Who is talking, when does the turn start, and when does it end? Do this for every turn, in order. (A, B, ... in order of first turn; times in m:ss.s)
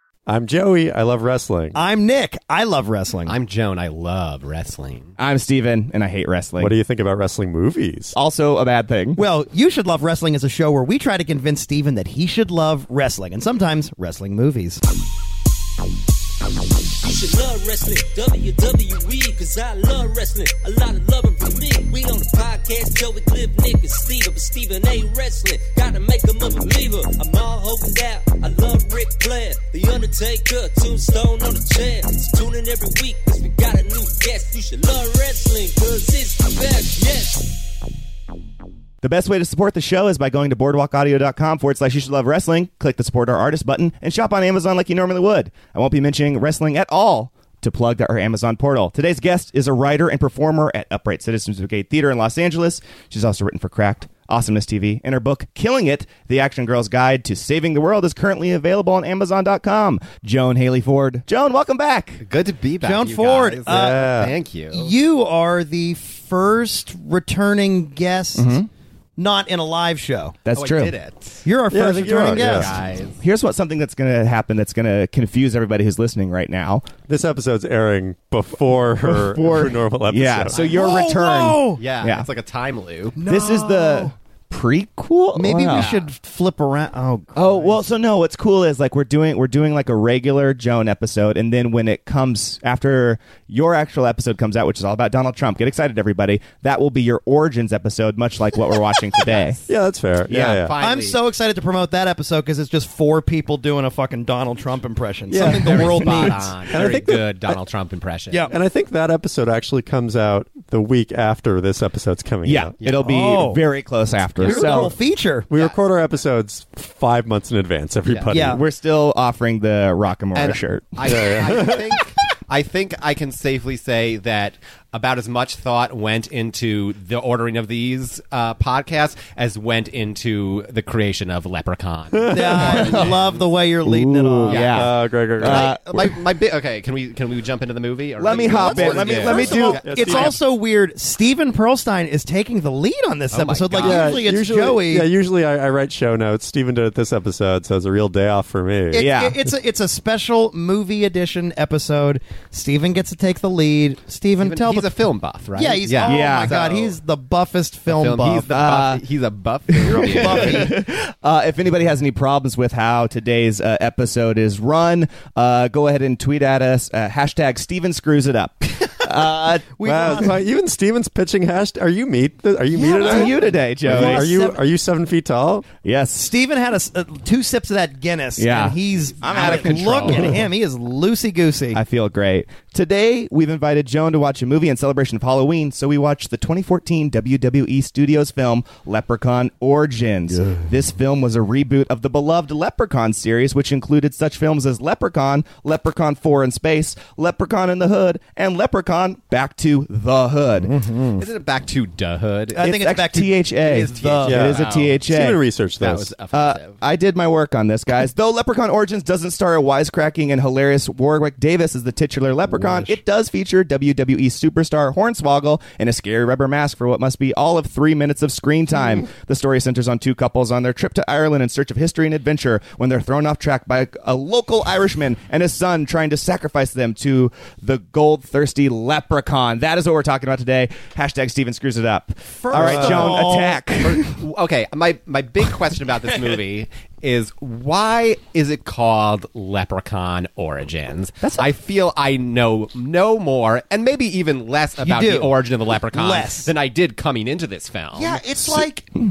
0:00.3-0:01.8 A
0:01.8-0:03.4 B
0:03.3-0:05.2 C
0:05.2-0:06.7 D
0:06.6-0:08.2 A
0:08.1-0:09.2 D
0:09.2-0:14.8 B
0:17.0-0:37.4 E
0:39.0-1:02.2 D
1:02.2-1:05.0 C
1:02.8-1:04.2 B
1:03.7-1:04.4 A
1:04.7-1:08.5 B
1:08.4-1:08.7 D
1:09.2-1:10.4 B
1:10.5-1:11.0 D
1:10.5-1:11.4 C
1:11.4-1:12.7 B
1:11.7-1:12.8 A
1:12.3-1:13.2 C
1:13.2-1:16.9 D
1:17.1-1:20.6 A
1:19.0-1:22.3 D
1:20.5-1:21.8 B
1:21.8-1:23.2 C
1:23.2-1:24.1 B
1:23.2-1:25.9 D
1:25.4-1:27.8 B
1:25.7-1:26.1 C
1:27.4-1:39.6 D
1:39.2-1:39.7 C
1:39.7-1:40.7 A
1:40.3-1:40.6 D
1:40.4-1:41.2 C
1:40.8-1:47.1 B
1:45.3-1:47.6 A
1:45.4-1:48.5 C
1:48.5-1:52.7 A
1:52.4-1:54.9 D
1:52.8-1:53.1 C
1:53.0-1:53.6 B
1:54.4-1:55.0 A
1:54.4-1:55.5 B
1:55.5-1:58.6 A
1:58.1-1:58.3 C
1:58.3-1:58.6 B
1:58.5-2:01.8 D
2:00.4-2:13.5 C
2:01.1-2:01.9 A
2:12.2-2:12.5 A
2:12.3-2:14.6 B
2:12.6-2:13.2 D
2:13.8-2:16.2 D
2:14.5-2:20.4 C
2:14.7-2:16.1 A
2:18.2-2:19.8 D
2:18.3-2:25.1 B
2:19.5-2:20.4 A
2:23.3-2:24.2 C
2:23.8-2:29.1 A
2:28.9-2:34.9 B
2:29.0-2:29.4 D
2:34.4-2:37.0 C
2:35.5-2:38.5 B
2:36.0-2:36.6 D
2:37.9-2:40.6 C
2:38.5-2:39.0 D
2:39.8-2:50.3 D
2:39.9-2:40.8 B
2:49.7-2:50.4 B
2:49.8-2:55.7 A
2:52.7-2:54.6 B
2:53.0-2:54.3 D
2:55.8-2:56.3 D
2:56.2-3:01.8 B
2:58.4-3:00.4 D
2:59.3-3:00.4 C
3:01.7-3:20.7 D
3:10.3-3:10.6 A
3:20.6-3:21.2 B
3:21.2-3:22.7 C
3:22.5-3:24.5 B
3:22.6-3:25.4 D
3:23.6-3:25.0 C
3:24.3-3:26.1 A
3:25.8-3:26.8 C
3:26.3-3:54.2 D
3:52.4-3:53.6 B
3:52.5-3:53.3 A
3:53.8-4:08.2 C
4:01.2-4:01.5 D
4:04.8-4:05.4 B
4:05.9-4:06.5 B
4:07.9-4:08.9 B